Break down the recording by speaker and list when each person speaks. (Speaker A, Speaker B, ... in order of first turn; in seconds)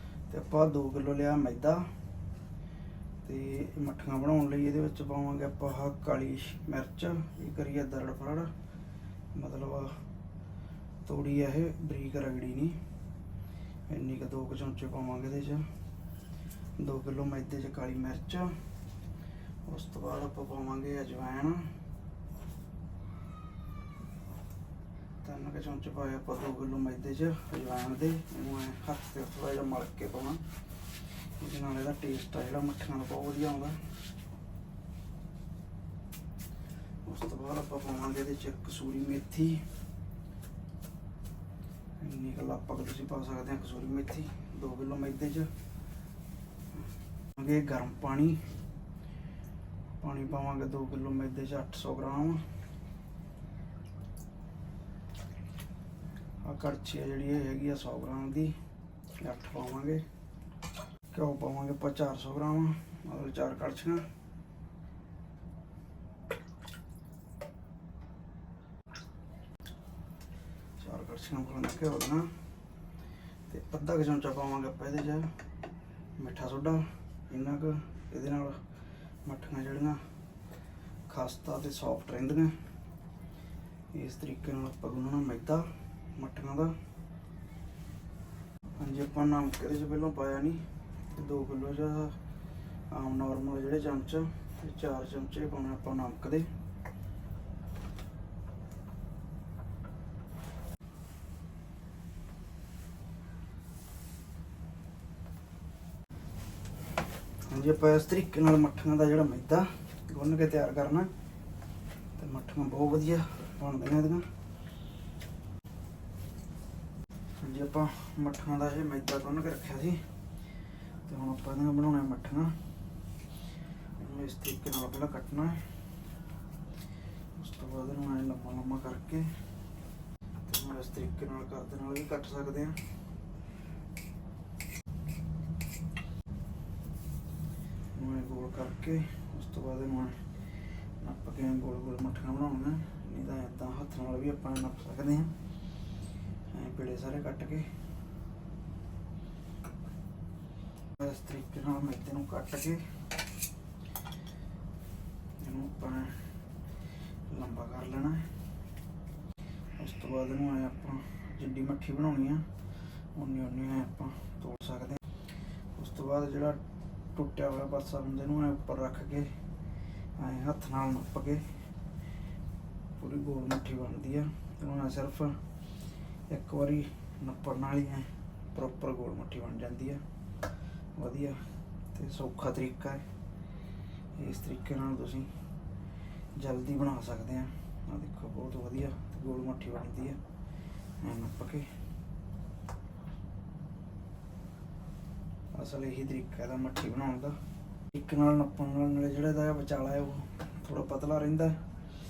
Speaker A: 0.3-1.9, 3.2-8.5, 9.3-10.0, 11.0-12.8, 13.9-15.7, 16.8-18.6, 19.6-21.7, 25.2-30.4, 31.4-33.8, 37.0-39.6, 42.0-45.5, 47.3-48.5, 50.0-52.4, 56.4-58.5, 59.2-60.0, 61.1-64.1, 70.8-72.3, 73.5-75.3, 76.2-78.6, 79.2-80.0, 81.1-82.5, 83.9-86.8, 88.8-92.2, 92.9-96.5, 107.5-111.1, 112.2-114.3, 117.4-120.0, 121.0-122.6, 124.0-125.7, 127.3-129.3, 130.5-132.8, 137.9-140.2, 141.0-145.3, 146.5-147.7, 151.0-152.8, 155.4-156.2, 157.3-158.3, 159.8-162.4, 163.1-165.0, 165.7-166.6, 167.1-169.3, 170.2-171.5, 173.0-175.4, 176.3-180.0, 180.9-181.4, 181.9-183.0, 184.2-185.3, 186.3-190.2, 191.0-191.7, 195.5-197.3, 197.9-201.6